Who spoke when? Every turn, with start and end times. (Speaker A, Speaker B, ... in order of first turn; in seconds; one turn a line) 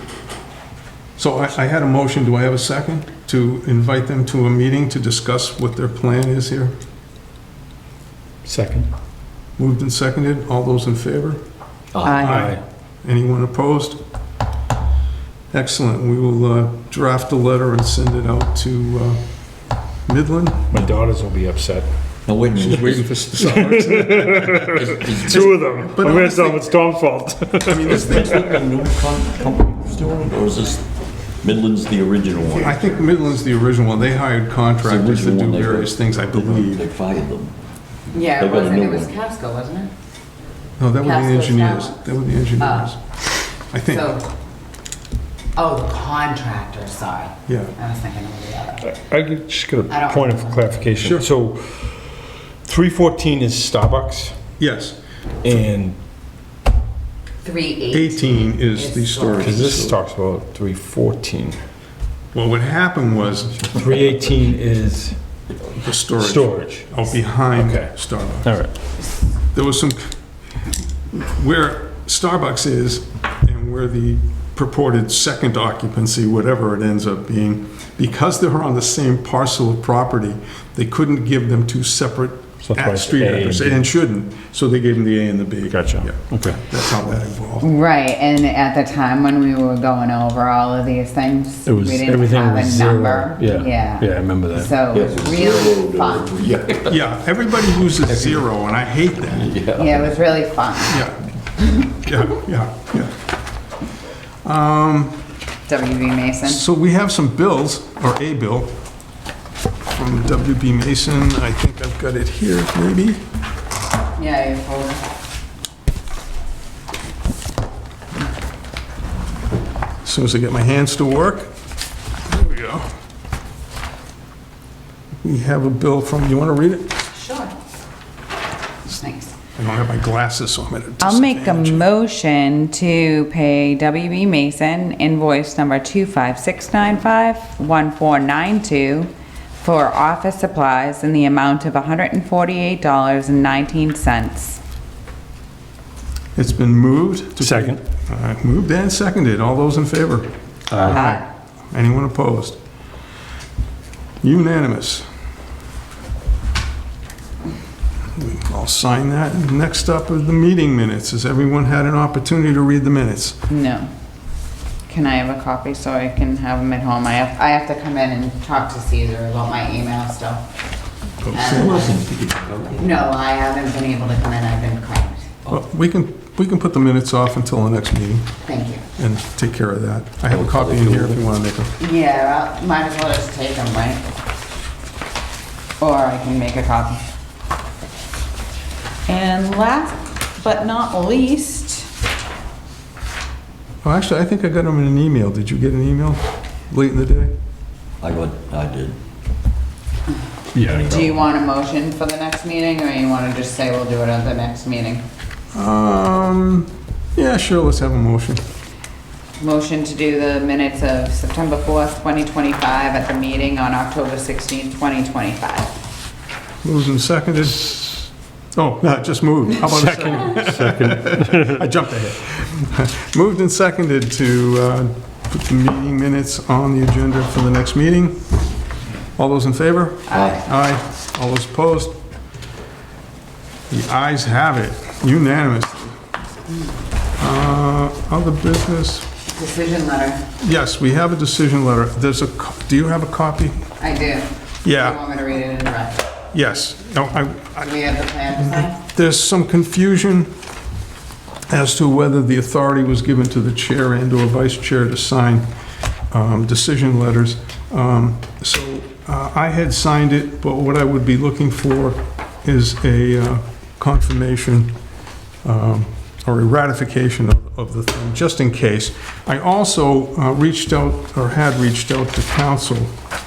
Speaker A: 1.2-6.7
Speaker B: 8.4-8.9
Speaker A: 9.6-11.4
Speaker C: 11.9-12.3
Speaker D: 12.1-12.6
Speaker A: 12.1-14.0
Speaker B: 12.2-12.6
Speaker A: 15.5-19.2
Speaker A: 20.1-20.9
Speaker B: 20.7-21.9
Speaker C: 22.3-23.3
Speaker A: 22.6-26.8
Speaker B: 22.6-28.6
Speaker C: 24.5-25.6
Speaker A: 27.6-28.6
Speaker C: 27.9-32.8
Speaker A: 32.6-36.9
Speaker C: 34.8-37.6
Speaker D: 38.1-39.9
Speaker C: 38.2-39.2
Speaker A: 40.8-43.0
Speaker D: 41.0-42.0
Speaker D: 42.6-42.9
Speaker A: 43.7-44.1
Speaker D: 43.9-44.3
Speaker D: 45.5-48.9
Speaker A: 47.5-47.8
Speaker B: 48.9-54.4
Speaker A: 49.1-49.9
Speaker D: 49.9-50.9
Speaker A: 51.0-51.3
Speaker A: 54.6-55.0
Speaker B: 55.4-56.0
Speaker D: 57.4-59.6
Speaker A: 57.9-60.0
Speaker B: 59.4-61.6
Speaker A: 62.3-63.8
Speaker B: 63.7-65.5
Speaker A: 65.7-68.7
Speaker B: 66.2-68.7
Speaker A: 69.5-70.2
Speaker A: 71.1-87.7
Speaker B: 82.6-83.9
Speaker B: 85.7-86.6
Speaker D: 87.6-96.4
Speaker B: 91.7-94.8
Speaker C: 94.9-97.0
Speaker A: 96.9-99.5
Speaker C: 98.1-98.4
Speaker C: 99.3-100.2
Speaker D: 99.8-101.0
Speaker A: 100.9-103.1
Speaker A: 104.4-105.2
Speaker D: 105.7-106.6
Speaker A: 106.5-108.8
Speaker A: 109.9-113.2
Speaker D: 114.2-115.0
Speaker A: 120.0-121.5
Speaker A: 122.3-122.9
Speaker A: 125.2-126.9
Speaker D: 127.1-127.5
Speaker D: 129.0-129.3
Speaker A: 129.6-131.9
Speaker D: 131.0-144.6
Speaker A: 146.3-152.6
Speaker B: 147.4-147.8
Speaker B: 150.7-151.1
Speaker D: 150.8-151.2
Speaker A: 154.2-155.1
Speaker A: 158.2-163.4
Speaker D: 163.5-163.9
Speaker D: 164.9-170.4
Speaker A: 171.2-171.6
Speaker D: 171.3-172.0
Speaker C: 171.3-173.1
Speaker D: 172.8-175.3
Speaker A: 175.5-178.3
Speaker D: 178.4-178.8
Speaker A: 179.0-181.8
Speaker C: 180.3-181.2
Speaker D: 181.8-184.0
Speaker D: 185.8-187.0
Speaker D: 189.1-191.9
Speaker A: 193.8-197.3
Speaker C: 198.0-199.0
Speaker B: 200.5-201.1
Speaker D: 200.6-205.1
Speaker A: 205.5-208.4
Speaker D: 209.4-215.7
Speaker A: 216.6-228.2
Speaker B: 219.6-221.6
Speaker A: 229.2-232.0
Speaker D: 230.1-230.4
Speaker C: 230.1-230.4
Speaker A: 233.7-235.9
Speaker A: 237.2-239.1
Speaker D: 239.3-240.2
Speaker A: 240.4-243.6
Speaker D: 243.8-246.1
Speaker A: 244.6-245.1
Speaker A: 246.3-247.7
Speaker D: 247.6-248.8
Speaker A: 248.3-250.3
Speaker A: 251.5-255.5
Speaker A: 256.1-264.8
Speaker A: 265.4-273.0